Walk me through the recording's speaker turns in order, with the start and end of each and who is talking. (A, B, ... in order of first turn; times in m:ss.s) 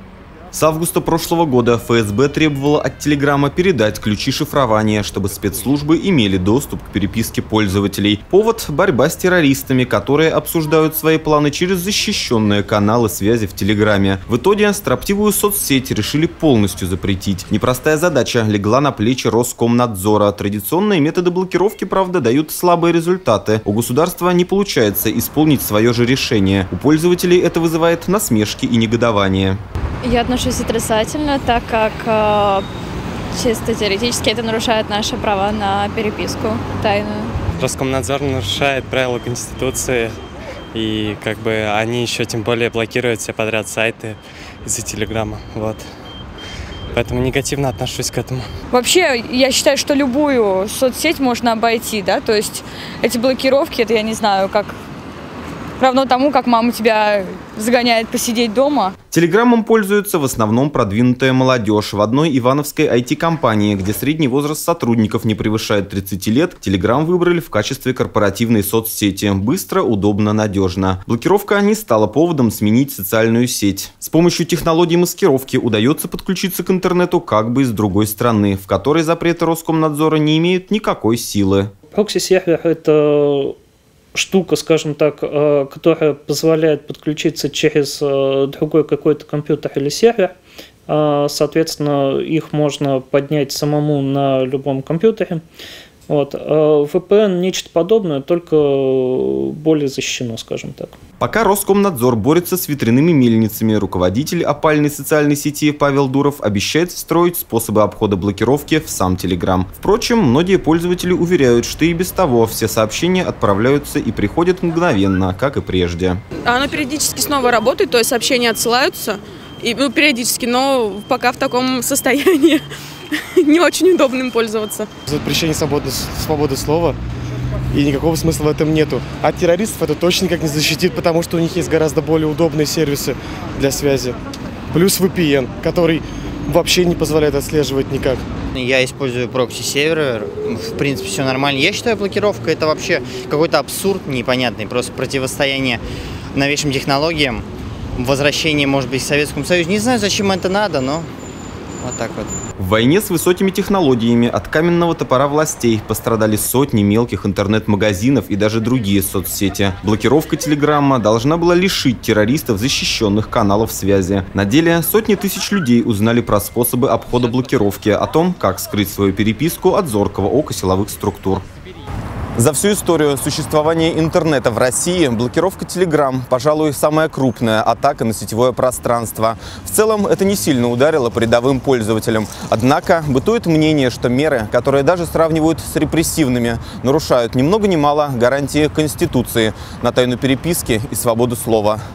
0:00.5-0:29.6 A
0:30.0-0:32.7 B
0:33.4-0:37.4 B
0:37.6-0:40.2 C
0:40.7-0:45.9 C
0:46.9-0:48.5 C
0:48.7-0:54.8 D
0:55.8-0:58.9 D
0:59.1-1:21.7 A
1:21.9-1:23.6 E
1:24.2-1:30.3 E
1:30.9-1:35.4 E
1:36.1-1:41.0 E
1:41.2-1:56.2 A
1:56.5-2:04.9 F
2:05.1-2:07.0 G
2:07.7-2:14.2 G
2:14.7-2:18.2 G
2:18.5-2:25.8 H
2:26.3-2:27.5 H
2:28.0-2:31.1 H
2:31.8-2:32.3 H
2:32.6-2:51.4 A
2:52.4-3:11.8 A